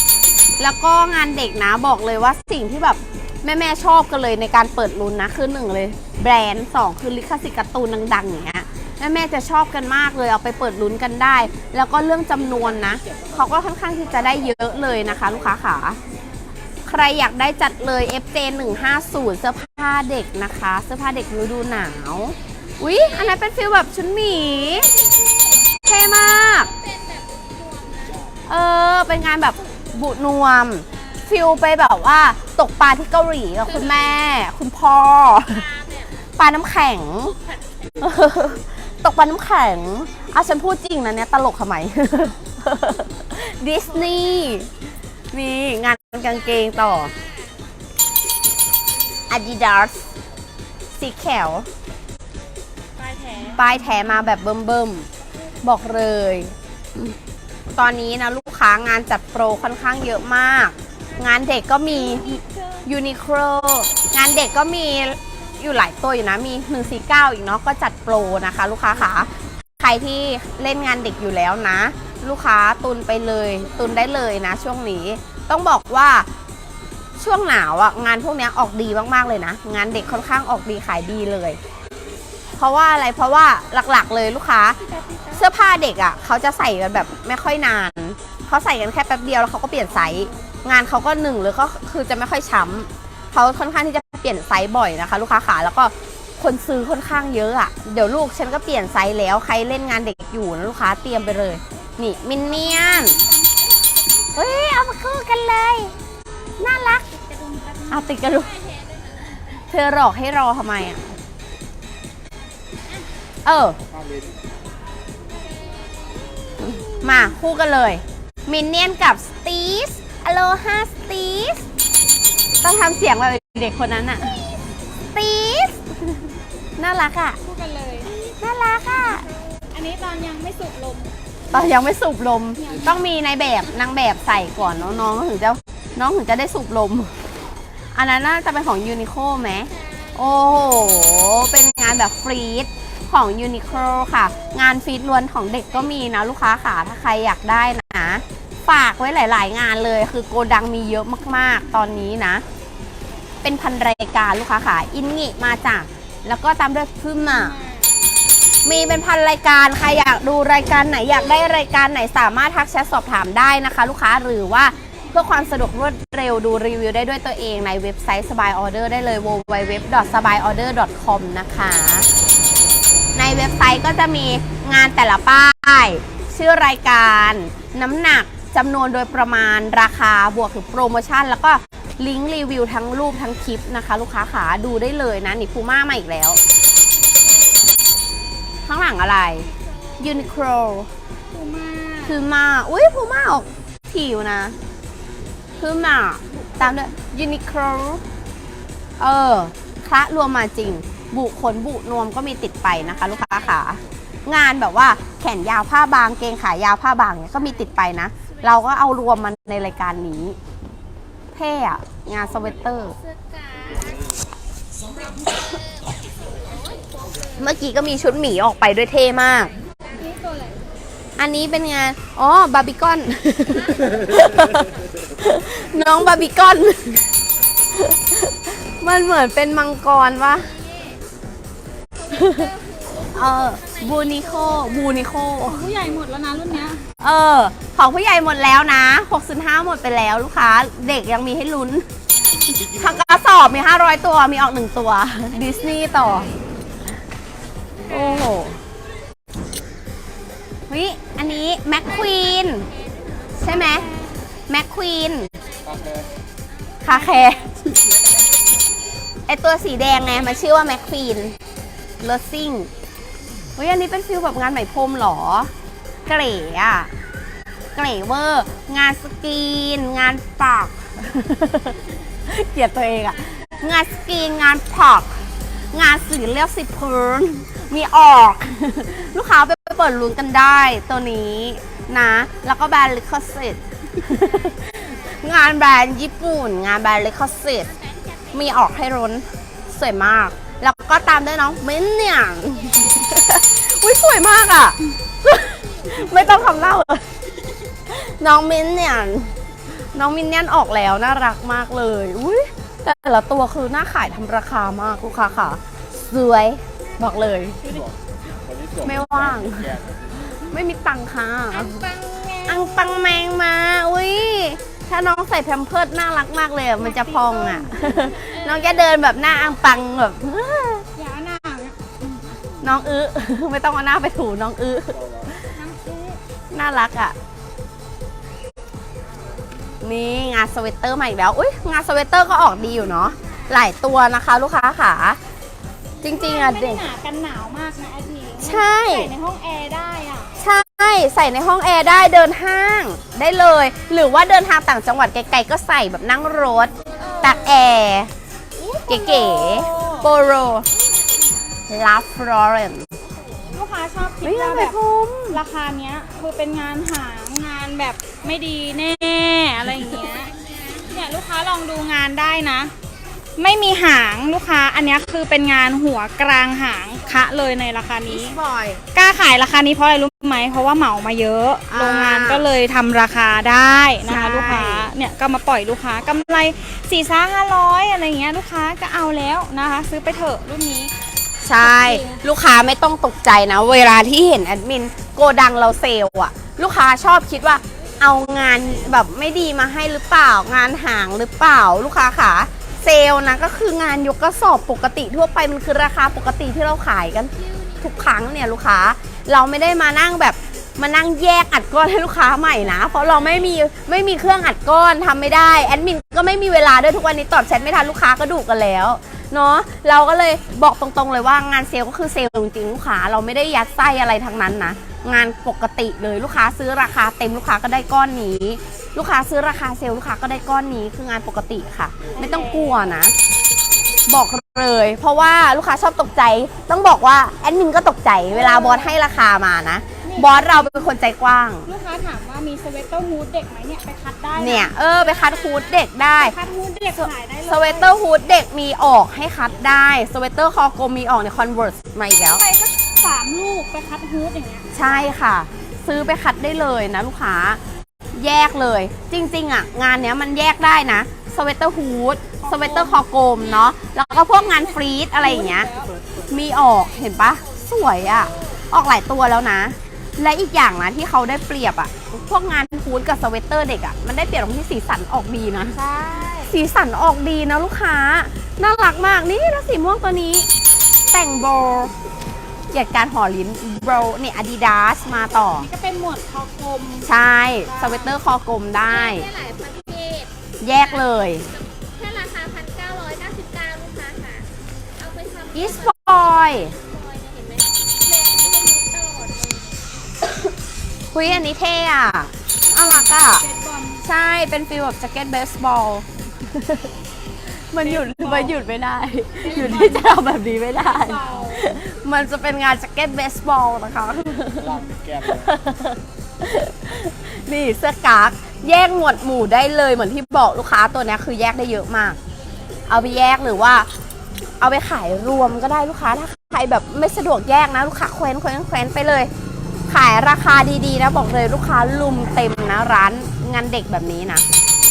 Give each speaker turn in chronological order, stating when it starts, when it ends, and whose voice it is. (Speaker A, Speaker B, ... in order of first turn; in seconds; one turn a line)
Speaker A: 0.6-16.0
Speaker A: 16.9-24.9
Speaker B: 22.4-23.4
Speaker B: 24.5-28.2
Speaker A: 25.9-26.7
Speaker A: 28.5-35.6
Speaker B: 29.6-29.9
Speaker B: 30.9-31.5
Speaker B: 33.6-34.2
Speaker B: 35.3-36.2
Speaker A: 36.4-37.3
Speaker B: 37.3-38.2
Speaker A: 38.0-44.7
Speaker B: 43.9-44.7
Speaker A: 45.3-47.1
Speaker B: 46.3-47.6
Speaker A: 49.3-50.0
Speaker A: 50.9-51.7
Speaker C: 53.0-53.6
Speaker A: 53.5-55.1
Speaker A: 55.6-57.1
Speaker A: 57.7-76.3
Speaker C: 61.9-62.9
Speaker A: 77.2-81.6
Speaker A: 82.6-84.8
Speaker C: 84.8-85.5
Speaker A: 85.3-103.2
Speaker C: 89.9-90.4
Speaker C: 102.4-103.6
Speaker A: 104.3-105.9
Speaker A: 106.6-107.0
Speaker C: 107.1-108.0
Speaker A: 107.9-108.5
Speaker B: 108.2-109.6
Speaker A: 109.7-111.0
Speaker A: 113.5-113.8
Speaker B: 115.3-117.0
Speaker A: 116.6-121.6
Speaker A: 122.6-124.4
Speaker A: 125.1-125.9
Speaker A: 126.8-127.4
Speaker C: 127.4-128.1
Speaker A: 128.0-129.2
Speaker C: 128.9-131.1
Speaker A: 131.5-137.1
Speaker C: 132.6-133.1
Speaker A: 137.9-152.4
Speaker B: 139.7-141.5
Speaker B: 143.9-144.6
Speaker B: 145.7-146.8
Speaker A: 153.4-157.5
Speaker C: 157.2-157.9
Speaker A: 158.6-172.1
Speaker A: 173.1-186.4
Speaker A: 188.7-189.5
Speaker B: 189.4-190.3
Speaker A: 190.0-190.9
Speaker C: 191.3-192.2
Speaker A: 192.1-194.6
Speaker A: 195.6-198.0
Speaker A: 199.0-210.4
Speaker B: 203.1-203.6
Speaker A: 211.3-212.9
Speaker B: 212.9-214.1
Speaker B: 214.8-217.4
Speaker A: 217.4-219.5
Speaker B: 219.6-220.1
Speaker C: 219.9-220.6
Speaker A: 221.2-227.0
Speaker B: 223.5-223.9
Speaker A: 227.7-230.5
Speaker B: 230.5-231.0
Speaker B: 231.9-235.1
Speaker A: 232.1-232.5
Speaker A: 233.1-235.6
Speaker C: 235.4-236.8
Speaker A: 237.0-241.8
Speaker A: 242.8-246.3
Speaker B: 245.3-246.4
Speaker B: 247.6-248.6
Speaker A: 247.9-248.6
Speaker A: 250.7-252.7
Speaker B: 251.8-254.0
Speaker A: 253.4-253.8
Speaker C: 253.5-254.0
Speaker A: 254.5-255.3
Speaker B: 255.3-256.7
Speaker A: 256.8-257.6
Speaker C: 256.9-257.4
Speaker A: 259.3-261.4
Speaker B: 260.3-260.7
Speaker A: 262.0-262.7
Speaker A: 263.6-265.5
Speaker A: 266.1-266.9
Speaker A: 267.8-271.8
Speaker A: 272.3-275.1
Speaker B: 273.3-273.6
Speaker A: 275.7-287.7
Speaker B: 287.7-288.7
Speaker A: 288.3-297.0
Speaker B: 292.7-293.0
Speaker B: 295.4-296.3
Speaker A: 297.9-299.3
Speaker A: 299.9-307.6
Speaker A: 308.8-309.8
Speaker A: 310.4-311.9
Speaker C: 311.5-312.7
Speaker A: 312.5-320.9
Speaker C: 316.8-318.2
Speaker B: 318.2-319.3
Speaker C: 320.9-322.2
Speaker A: 322.6-325.1
Speaker C: 325.5-326.2
Speaker A: 326.5-327.1
Speaker A: 329.8-335.2
Speaker A: 336.0-336.8
Speaker C: 336.1-340.3
Speaker A: 338.4-339.1
Speaker A: 340.4-348.1
Speaker B: 346.8-347.6
Speaker C: 347.0-347.6
Speaker C: 348.6-350.1
Speaker A: 348.9-350.7
Speaker A: 351.7-352.9
Speaker B: 353.3-353.6
Speaker C: 353.5-354.8
Speaker A: 354.2-355.4
Speaker C: 355.3-362.7
Speaker B: 360.1-360.9
Speaker C: 363.4-368.4
Speaker A: 368.1-368.8
Speaker C: 368.9-380.9
Speaker A: 371.7-372.5
Speaker A: 374.1-374.9
Speaker A: 381.4-423.1
Speaker C: 381.6-382.2
Speaker B: 397.3-398.3
Speaker B: 402.7-403.4
Speaker C: 422.1-423.0
Speaker A: 424.1-431.7
Speaker C: 428.3-429.0
Speaker C: 430.0-430.9
Speaker C: 431.6-434.7
Speaker A: 434.4-436.3
Speaker B: 435.2-435.6
Speaker C: 436.1-437.9
Speaker A: 436.9-442.4
Speaker C: 442.2-445.1
Speaker A: 444.7-447.6
Speaker A: 448.1-455.7
Speaker C: 452.4-453.7
Speaker C: 454.3-455.9
Speaker A: 456.3-465.8
Speaker C: 465.7-466.6
Speaker A: 466.5-470.5
Speaker A: 471.1-471.9
Speaker A: 472.7-475.7
Speaker C: 475.5-477.1
Speaker A: 477.0-479.2
Speaker C: 477.6-478.1
Speaker B: 478.8-484.5
Speaker A: 480.6-481.5
Speaker B: 485.0-489.8
Speaker A: 485.5-486.7
Speaker A: 491.1-493.4
Speaker C: 492.8-494.0
Speaker A: 494.0-496.9
Speaker A: 497.7-512.2
Speaker C: 497.8-498.6
Speaker C: 499.4-500.2
Speaker C: 500.8-501.6
Speaker A: 512.9-513.9
Speaker A: 514.6-519.3
Speaker A: 519.9-524.4